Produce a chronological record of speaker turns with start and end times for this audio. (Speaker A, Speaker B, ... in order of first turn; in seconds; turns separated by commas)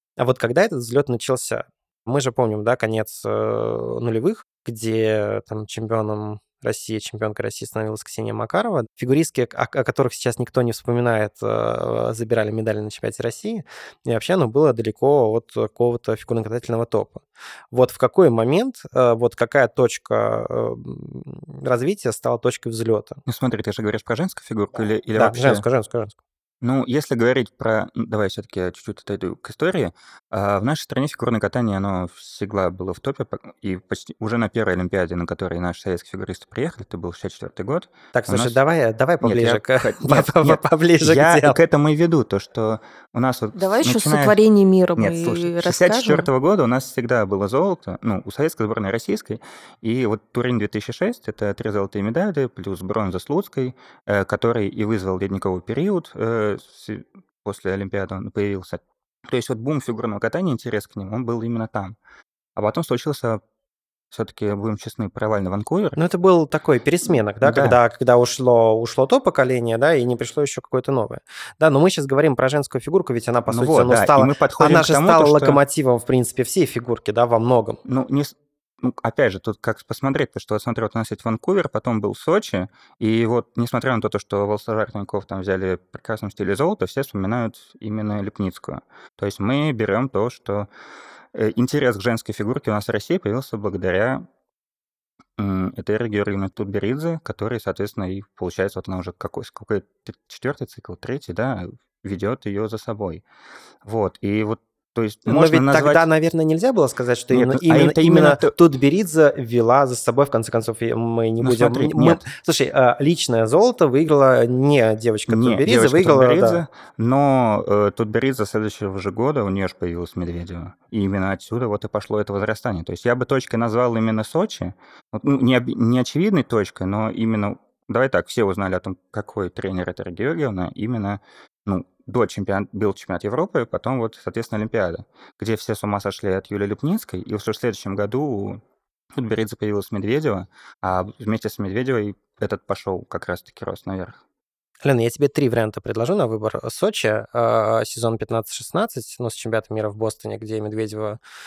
Speaker A: 0.2-23.2, Speaker B: 23.3-25.6, Speaker A: 25.2-26.2, Speaker B: 26.6-38.6, Speaker A: 38.1-41.6, Speaker B: 39.2-44.4, Speaker C: 43.5-46.3, Speaker B: 45.0-62.0, Speaker B: 62.5-63.4, Speaker B: 64.1-66.0, Speaker A: 66.0-77.8, Speaker B: 67.4-67.8, Speaker B: 73.5-75.6, Speaker B: 77.8-90.7, Speaker B: 91.3-94.2, Speaker B: 95.4-103.2, Speaker B: 103.8-106.0, Speaker A: 105.2-116.6, Speaker B: 107.3-108.5, Speaker B: 111.4-112.2, Speaker B: 115.3-138.6, Speaker B: 139.1-144.2, Speaker A: 144.8-151.2